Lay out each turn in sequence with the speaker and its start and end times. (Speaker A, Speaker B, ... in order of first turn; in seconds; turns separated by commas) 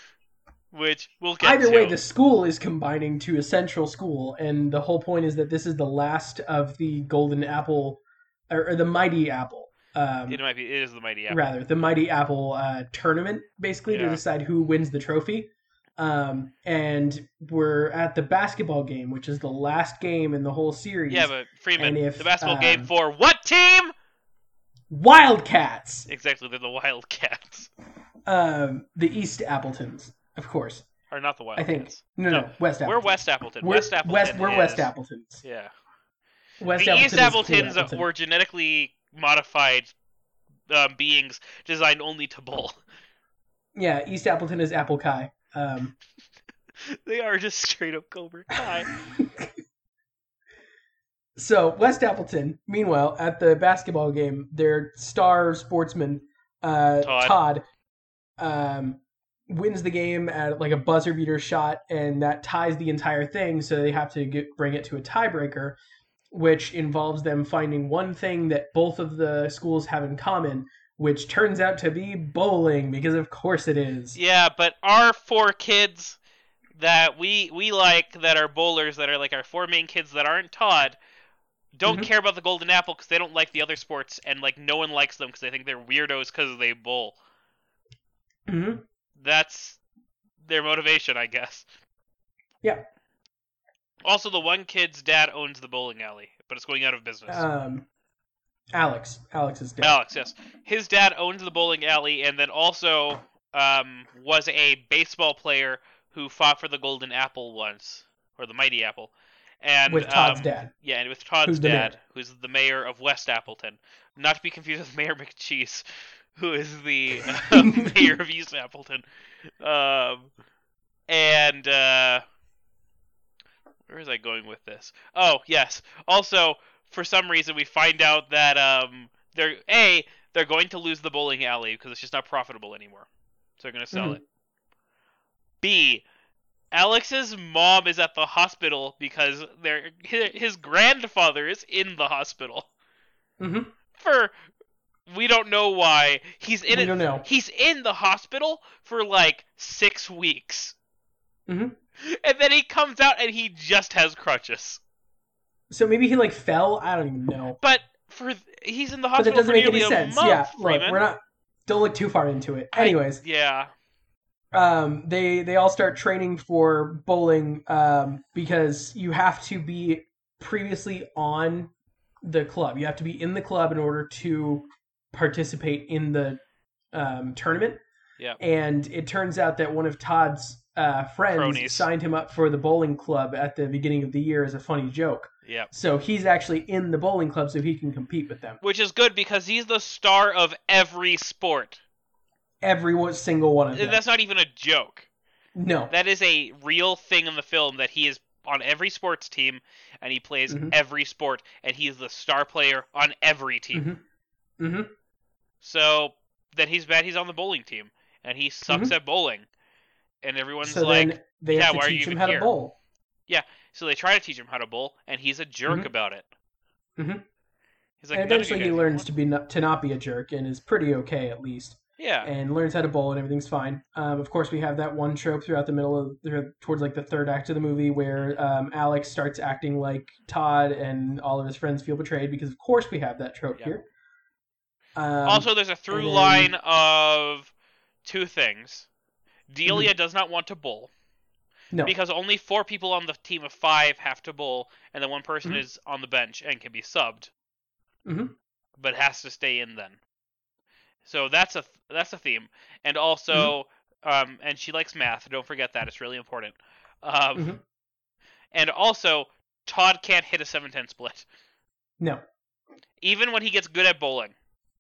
Speaker A: 0.7-2.0, Speaker B: 1.4-10.4, Speaker A: 10.3-11.4, Speaker B: 11.3-22.9, Speaker A: 13.9-14.2, Speaker A: 21.1-23.9, Speaker B: 24.9-26.1, Speaker A: 26.1-27.7, Speaker B: 28.3-30.9, Speaker A: 31.1-34.9, Speaker B: 31.6-35.4, Speaker A: 35.4-35.7, Speaker B: 36.6-38.1, Speaker A: 36.7-39.9, Speaker A: 40.7-42.8, Speaker B: 43.8-45.9, Speaker A: 47.0-48.9, Speaker B: 48.6-49.5, Speaker B: 51.4-57.6, Speaker A: 57.0-57.4, Speaker B: 58.4-65.8, Speaker B: 66.3-74.2, Speaker A: 74.2-76.2, Speaker A: 76.8-81.0, Speaker A: 81.8-87.2, Speaker B: 88.5-88.8, Speaker A: 89.2-89.8, Speaker A: 90.4-91.7, Speaker A: 94.0-97.5, Speaker B: 97.3-97.9, Speaker B: 98.7-100.0, Speaker A: 99.8-115.8, Speaker B: 109.9-110.7, Speaker B: 111.4-111.9, Speaker A: 116.3-119.0, Speaker B: 117.5-118.0, Speaker A: 119.6-120.3, Speaker A: 121.1-122.2, Speaker A: 123.9-133.1, Speaker A: 133.6-134.2, Speaker B: 133.9-134.2, Speaker A: 135.6-136.0, Speaker A: 136.7-142.7, Speaker B: 143.4-143.7, Speaker A: 143.9-144.3, Speaker A: 145.1-150.8, Speaker B: 146.7-147.3, Speaker B: 151.5-151.8, Speaker A: 152.0-154.8, Speaker B: 155.7-157.6, Speaker A: 157.6-161.0, Speaker B: 159.2-163.2, Speaker A: 162.7-163.7, Speaker B: 164.5-171.7, Speaker B: 172.2-176.4, Speaker B: 176.9-177.8, Speaker B: 178.4-188.6, Speaker A: 181.3-181.9, Speaker A: 188.6-191.8, Speaker B: 192.6-194.0, Speaker A: 193.7-195.1, Speaker B: 195.6-195.9, Speaker A: 195.9-203.9, Speaker B: 200.5-200.8, Speaker B: 203.7-204.0, Speaker B: 204.6-204.9, Speaker A: 205.6-209.5, Speaker B: 208.7-208.9, Speaker A: 210.2-212.5, Speaker B: 210.6-212.8, Speaker A: 213.3-216.3, Speaker B: 217.0-217.2, Speaker A: 218.0-219.1, Speaker B: 218.1-233.9, Speaker A: 222.0-222.3, Speaker B: 235.0-236.5, Speaker A: 235.2-237.5, Speaker A: 238.0-238.9, Speaker A: 239.5-240.9, Speaker A: 241.8-247.3, Speaker B: 248.1-248.3, Speaker A: 248.8-250.0, Speaker A: 251.0-257.6, Speaker B: 257.4-257.6, Speaker A: 258.5-261.2, Speaker A: 263.0-264.4